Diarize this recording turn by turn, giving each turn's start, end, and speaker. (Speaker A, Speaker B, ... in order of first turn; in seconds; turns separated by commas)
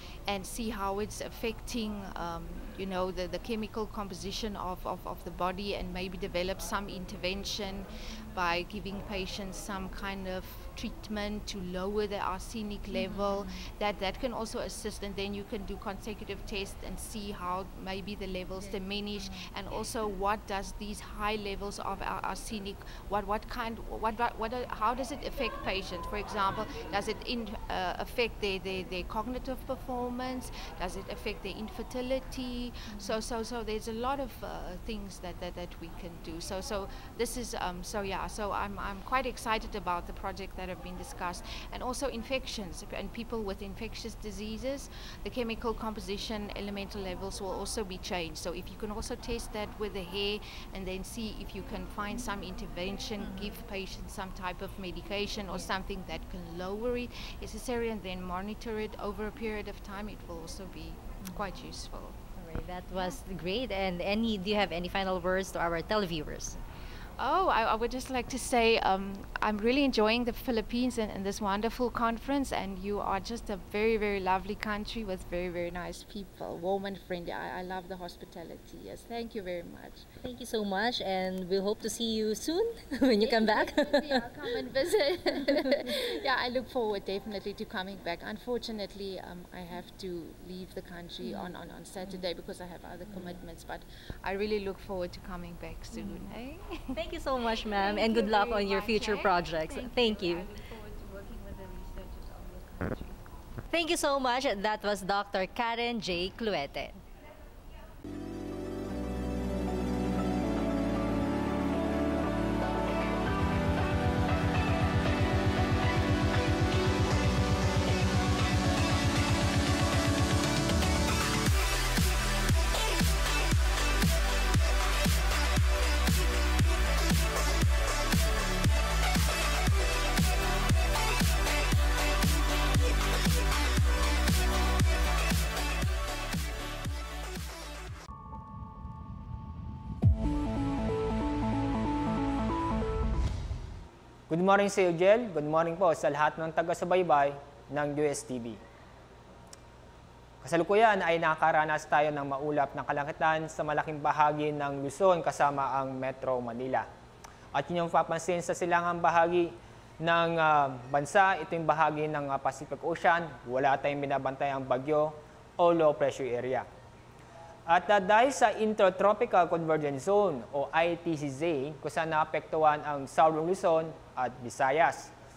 Speaker A: 0.3-62.2, Speaker B: 12.9-13.6, Speaker B: 32.9-33.2, Speaker B: 53.2-53.5, Speaker B: 62.4-66.6, Speaker A: 67.2-80.0, Speaker B: 80.2-84.3, Speaker A: 83.2-96.9, Speaker B: 85.5-85.9, Speaker B: 95.9-96.2, Speaker B: 96.9-100.5, Speaker A: 97.7-103.2, Speaker B: 103.7-107.0, Speaker C: 144.3-148.6, Speaker C: 150.4-156.9, Speaker C: 157.5-166.7, Speaker C: 167.7-175.1